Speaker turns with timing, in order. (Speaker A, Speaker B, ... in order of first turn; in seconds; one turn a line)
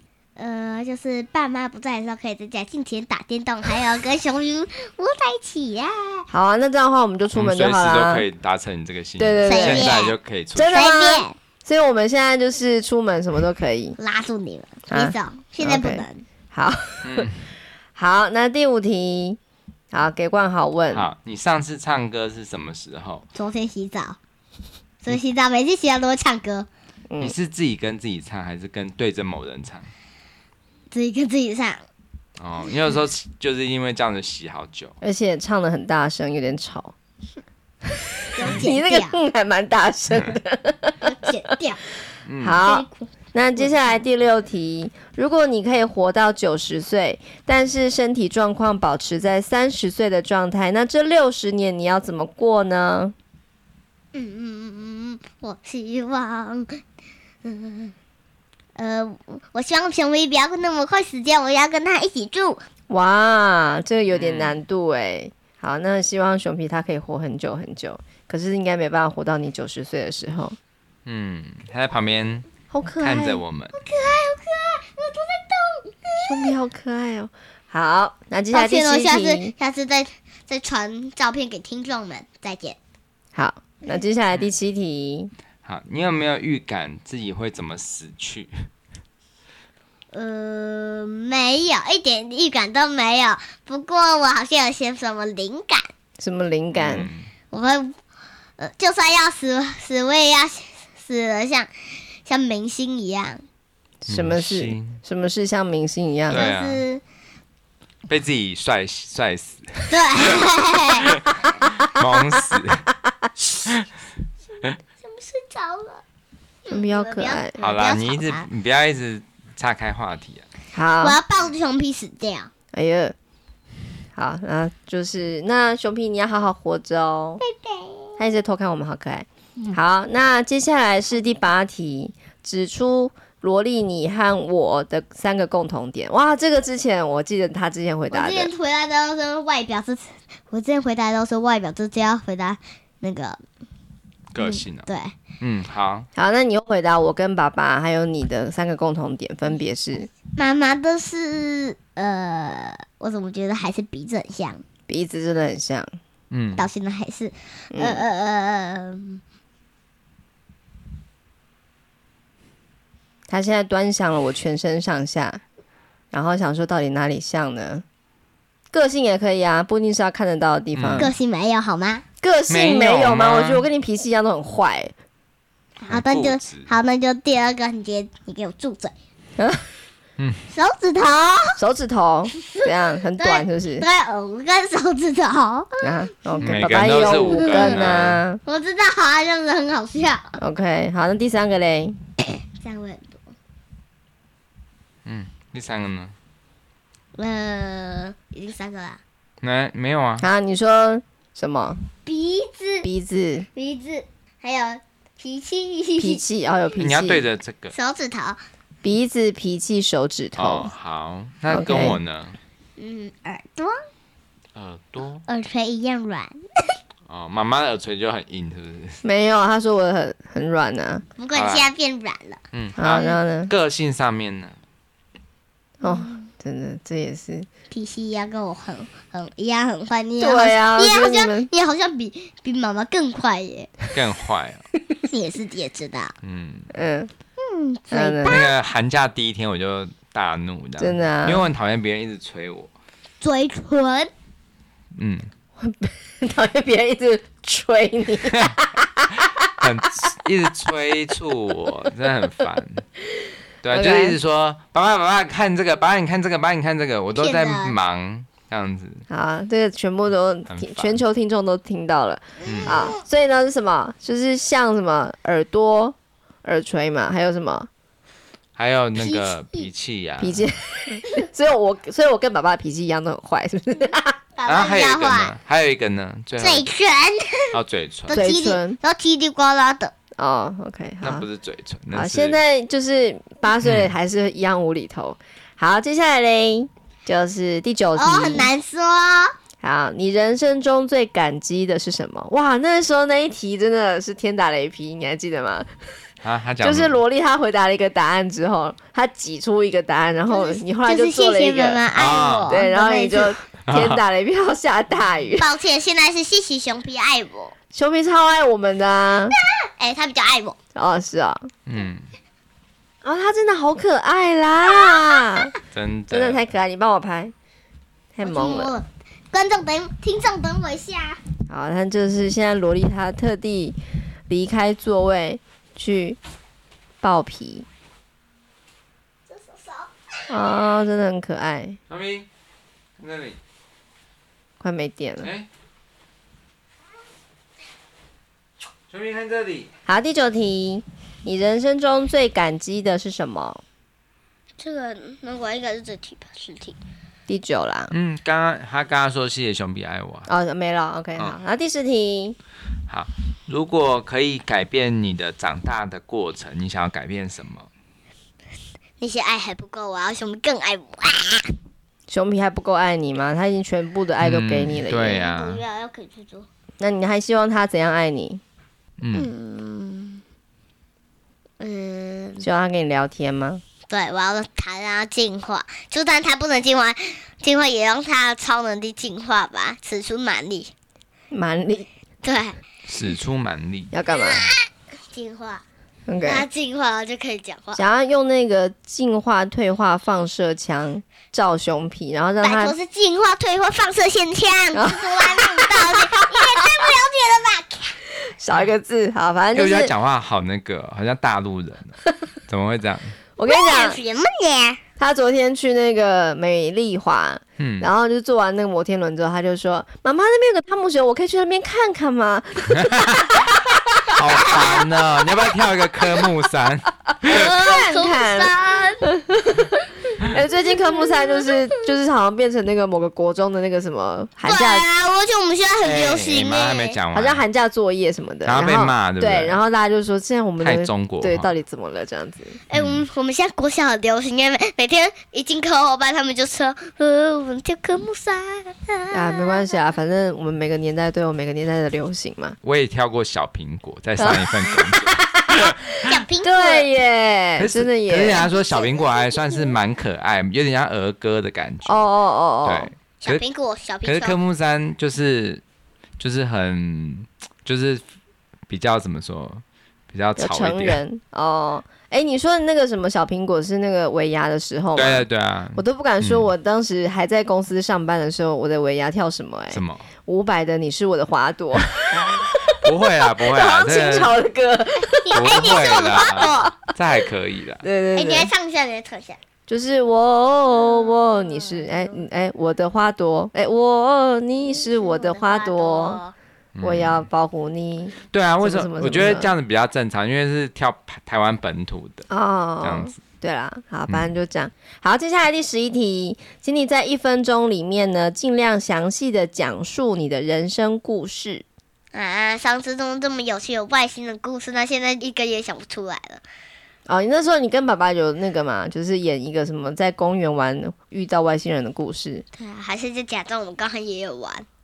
Speaker A: 0.4-6.3
Speaker B: 6.3-8.3
Speaker C: 7.3-10.7
Speaker B: 9.2-10.0
Speaker A: 9.4-10.2
Speaker B: 10.6-14.0
Speaker A: 10.7-11.4
Speaker A: 14.0-16.2
Speaker B: 14.9-17.3
Speaker C: 17.0-17.5
Speaker B: 18.0-19.4
Speaker B: 19.9-21.1
Speaker C: 20.9-23.2
Speaker A: 23.4-24.2
Speaker A: 25.0-26.7
Speaker B: 27.1-27.4
Speaker C: 27.2-29.9
Speaker A: 30.9-31.8
Speaker C: 32.4-34.9
Speaker B: 35.0-36.9
Speaker A: 38.3-39.2
Speaker B: 38.4-41.1
Speaker A: 41.0-41.8
Speaker C: 42.3-42.7
Speaker B: 42.4-53.1
Speaker A: 42.6-44.0
Speaker A: 54.1-56.8
Speaker A: 57.5-57.9
Speaker A: 58.8-62.6
Speaker B: 62.9-70.6
Speaker C: 64.1-64.6
Speaker C: 71.1-72.5
Speaker B: 72.7-73.4
Speaker C: 73.0-73.7
Speaker A: 73.7-76.5
Speaker B: 76.2-79.5
Speaker A: 78.5-82.8
Speaker B: 83.3-85.3
Speaker C: 85.7-88.6
Speaker A: 90.1-95.9
Speaker B: 96.2-97.1
Speaker C: 96.7-97.3
Speaker A: 97.5-98.0
Speaker A: 98.6-101.7
Speaker A: 102.2-103.4
Speaker B: 104.0-106.5
Speaker C: 104.1-105.0
Speaker A: 106.3-107.0
Speaker C: 106.3-106.8
Speaker C: 108.1-110.1
Speaker A: 109.9-111.1
Speaker C: 111.1-112.9
Speaker C: 113.4-113.8
Speaker A: 114.6-116.0
Speaker A: 116.7-118.5
Speaker B: 116.7-117.5
Speaker C: 117.6-120.5
Speaker B: 120.8-121.2
Speaker A: 121.0-122.5
Speaker B: 122.7-123.2
Speaker B: 124.2-127.4
Speaker A: 127.4-128.2
Speaker B: 128.2-138.5
Speaker A: 138.1-143.4
Speaker C: 144.3-144.9
Speaker A: 144.4-145.1
Speaker C: 145.4-146.1
Speaker B: 146.2-150.1
Speaker A: 150.4-154.6
Speaker B: 154.9-155.9
Speaker C: 156.3-156.7
Speaker A: 156.6-159.2
Speaker B: 157.7-158.0
Speaker B: 163.3-165.4
Speaker B: 166.1-167.8
Speaker B: 168.7-171.1
Speaker C: 170.8-171.1
Speaker A: 171.0-172.0
Speaker B: 172.2-174.9
Speaker C: 172.5-173.7
Speaker A: 175.8-178.9
Speaker C: 175.9-176.7
Speaker B: 179.4-179.6
Speaker A: 180.5-181.6
Speaker B: 181.6-183.9
Speaker A: 182.4-190.4
Speaker B: 185.8-188.4
Speaker C: 186.4-188.2
Speaker B: 190.4-192.0
Speaker A: 192.6-193.3
Speaker C: 195.1-196.1
Speaker A: 197.2-199.0
Speaker C: 199.4-200.3
Speaker B: 200.2-201.8
Speaker A: 202.1-202.9
Speaker B: 202.8-203.5
Speaker A: 203.5-206.2
Speaker B: 206.0-207.3
Speaker C: 206.8-207.7
Speaker A: 207.7-208.4
Speaker B: 208.8-210.7
Speaker C: 210.4-212.4
Speaker B: 211.5-212.0
Speaker A: 212.8-213.8
Speaker C: 214.6-215.2
Speaker A: 215.3-216.4
Speaker C: 217.1-219.0
Speaker B: 219.0-221.0
Speaker A: 221.2-222.4
Speaker C: 221.3-221.7
Speaker C: 222.5-224.6
Speaker B: 222.8-223.5
Speaker A: 222.9-223.2
Speaker A: 225.8-226.3
Speaker B: 225.8-227.5
Speaker A: 227.7-233.7
Speaker B: 230.2-231.5
Speaker C: 233.9-234.7
Speaker A: 235.1-236.1
Speaker C: 236.2-236.7
Speaker B: 236.7-237.1
Speaker A: 237.4-238.4
Speaker B: 237.9-238.4
Speaker C: 238.3-242.7
Speaker B: 240.8-241.5
Speaker A: 243.2-244.1
Speaker C: 245.0-245.3
Speaker B: 245.6-249.3
Speaker C: 248.3-248.6
Speaker C: 249.3-252.9
Speaker C: 253.6-259.1
Speaker B: 253.7-254.2
Speaker A: 257.1-257.8
Speaker B: 259.1-267.7
Speaker C: 260.5-261.0
Speaker C: 262.5-262.8
Speaker A: 262.5-263.0
Speaker C: 268.6-270.5
Speaker A: 269.0-269.7
Speaker B: 270.2-274.2
Speaker A: 274.4-275.4
Speaker C: 274.5-276.7
Speaker A: 276.4-277.5
Speaker C: 277.5-278.2
Speaker A: 278.1-279.9
Speaker B: 278.1-278.8
Speaker B: 280.2-281.3
Speaker C: 281.0-282.4
Speaker B: 281.9-288.5
Speaker C: 283.6-283.9
Speaker A: 288.0-289.3
Speaker B: 289.6-295.7
Speaker C: 296.2-297.0
Speaker B: 296.6-301.8
Speaker A: 300.3-303.4
Speaker C: 301.9-302.5
Speaker B: 302.5-305.5
Speaker C: 303.6-304.0
Speaker A: 305.4-307.5
Speaker B: 307.7-309.4
Speaker A: 309.8-310.6
Speaker B: 310.8-311.5
Speaker C: 311.7-312.1
Speaker B: 313.0-315.5
Speaker A: 314.8-315.2
Speaker C: 315.7-316.4
Speaker B: 316.1-317.3
Speaker B: 318.1-318.7
Speaker A: 318.2-321.2
Speaker B: 321.5-323.8
Speaker B: 324.3-326.2
Speaker B: 327.0-327.7
Speaker A: 329.3-329.9
Speaker B: 330.3-331.8
Speaker C: 331.9-332.3
Speaker C: 333.0-333.4
Speaker B: 334.6-335.3
Speaker C: 335.2-335.5
Speaker C: 338.9-339.7
Speaker B: 339.9-343.6
Speaker A: 344.6-346.8
Speaker B: 347.3-347.9
Speaker C: 347.9-350.3
Speaker B: 350.3-352.4
Speaker C: 352.9-357.7
Speaker A: 359.0-361.5
Speaker B: 362.1-365.3
Speaker C: 364.2-365.6
Speaker A: 365.1-366.5
Speaker B: 366.8-368.4
Speaker C: 369.0-369.3
Speaker A: 369.1-370.2
Speaker A: 371.6-372.5
Speaker B: 372.4-373.6
Speaker A: 373.9-380.7
Speaker B: 381.3-381.9
Speaker A: 382.2-382.6
Speaker C: 382.9-383.9
Speaker B: 383.9-384.5
Speaker A: 384.1-385.6
Speaker B: 386.1-386.5
Speaker A: 386.2-387.8
Speaker B: 387.8-392.8
Speaker A: 392.4-398.0
Speaker B: 394.7-395.7
Speaker B: 398.4-399.9
Speaker C: 399.5-403.2
Speaker B: 403.4-404.0
Speaker A: 403.5-404.8
Speaker B: 405.0-413.8
Speaker C: 407.6-407.9
Speaker C: 412.9-413.4
Speaker C: 414.1-417.5
Speaker A: 414.4-414.8
Speaker A: 417.2-419.1
Speaker B: 417.4-418.5
Speaker B: 419.1-424.9
Speaker A: 420.9-421.8
Speaker A: 424.4-427.0
Speaker C: 425.8-427.4
Speaker B: 427.1-432.6
Speaker C: 428.4-429.6
Speaker C: 430.6-431.5
Speaker A: 432.7-439.6
Speaker C: 432.7-433.1
Speaker B: 439.1-442.6
Speaker C: 442.6-446.1
Speaker B: 444.2-445.8
Speaker A: 446.1-446.9
Speaker B: 446.4-448.5
Speaker C: 447.6-452.1
Speaker A: 448.4-449.8
Speaker B: 451.9-452.9
Speaker C: 452.6-453.4
Speaker A: 453.2-454.4
Speaker C: 454.0-455.6
Speaker C: 456.2-458.0
Speaker C: 458.7-461.0
Speaker B: 460.4-472.6
Speaker C: 464.9-466.5
Speaker C: 469.7-470.1
Speaker C: 472.2-474.4
Speaker B: 473.5-475.5
Speaker A: 475.2-476.8
Speaker C: 475.3-477.9
Speaker B: 476.4-476.9
Speaker B: 477.8-478.5
Speaker A: 478.2-479.4
Speaker B: 479.7-486.2
Speaker A: 480.8-482.2
Speaker A: 484.7-486.4
Speaker C: 486.8-487.3
Speaker B: 486.8-489.5
Speaker C: 488.3-492.3
Speaker B: 492.3-501.6
Speaker C: 492.8-493.2
Speaker A: 502.1-506.4
Speaker B: 507.1-512.5
Speaker A: 512.5-514.6